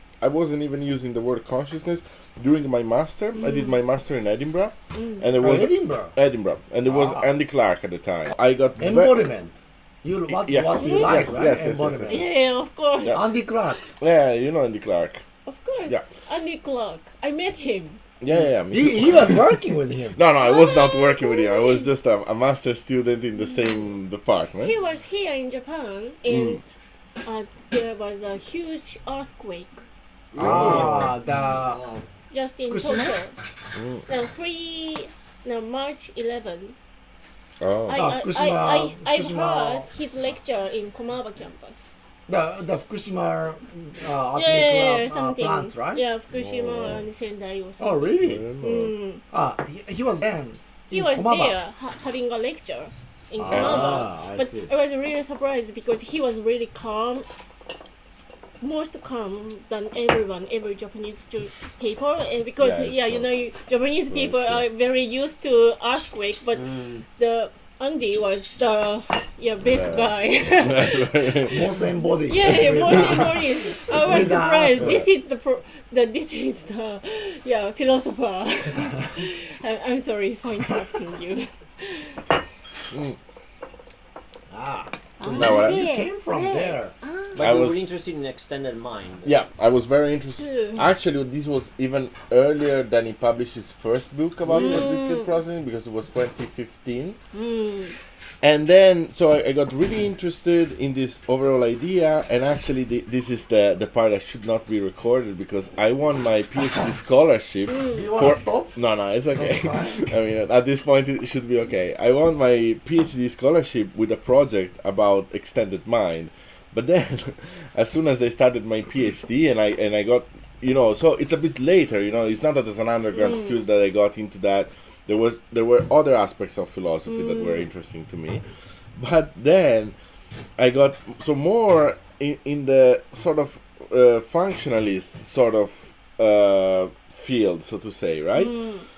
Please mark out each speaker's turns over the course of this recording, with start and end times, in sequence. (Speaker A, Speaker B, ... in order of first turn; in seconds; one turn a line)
Speaker A: 0.2-9.3
Speaker B: 4.9-5.3
Speaker C: 5.4-6.2
Speaker C: 6.8-7.3
Speaker C: 8.8-12.3
Speaker A: 10.3-12.3
Speaker B: 10.7-11.4
Speaker B: 12.1-13.5
Speaker A: 13.0-13.3
Speaker C: 13.1-13.8
Speaker A: 14.0-15.2
Speaker B: 15.5-18.0
Speaker A: 18.2-19.6
Speaker C: 18.7-20.2
Speaker A: 20.2-24.7
Speaker B: 20.4-21.9
Speaker B: 23.5-23.8
Speaker B: 24.6-26.6
Speaker A: 26.3-26.6
Speaker B: 27.2-29.8
Speaker D: 30.3-32.1
Speaker A: 30.4-31.2
Speaker C: 30.4-31.8
Speaker B: 32.3-33.4
Speaker C: 32.7-33.2
Speaker A: 33.8-34.0
Speaker B: 34.1-36.8
Speaker A: 37.6-38.1
Speaker B: 37.9-41.8
Speaker C: 37.9-39.9
Speaker C: 42.3-46.0
Speaker B: 44.3-49.2
Speaker A: 46.3-47.0
Speaker C: 47.8-48.5
Speaker A: 48.2-49.0
Speaker C: 49.3-51.6
Speaker B: 50.9-57.3
Speaker C: 53.4-54.7
Speaker A: 53.5-53.9
Speaker B: 58.6-71.5
Speaker A: 62.6-63.3
Speaker A: 64.1-64.7
Speaker D: 66.7-67.0
Speaker A: 69.7-71.7
Speaker C: 71.5-75.1
Speaker B: 72.2-82.2
Speaker A: 72.4-73.4
Speaker A: 82.9-83.2
Speaker C: 84.5-86.9
Speaker B: 85.2-87.4
Speaker A: 85.3-85.9
Speaker D: 87.3-89.3
Speaker A: 87.4-87.9
Speaker A: 89.2-97.2
Speaker B: 90.4-90.9
Speaker B: 94.5-95.3
Speaker B: 97.3-97.9
Speaker A: 98.4-128.4
Speaker B: 107.7-108.0
Speaker C: 107.9-108.8
Speaker C: 109.3-110.1
Speaker B: 123.2-123.5
Speaker B: 127.1-127.6
Speaker A: 129.0-129.9
Speaker A: 130.6-138.6
Speaker B: 138.3-138.8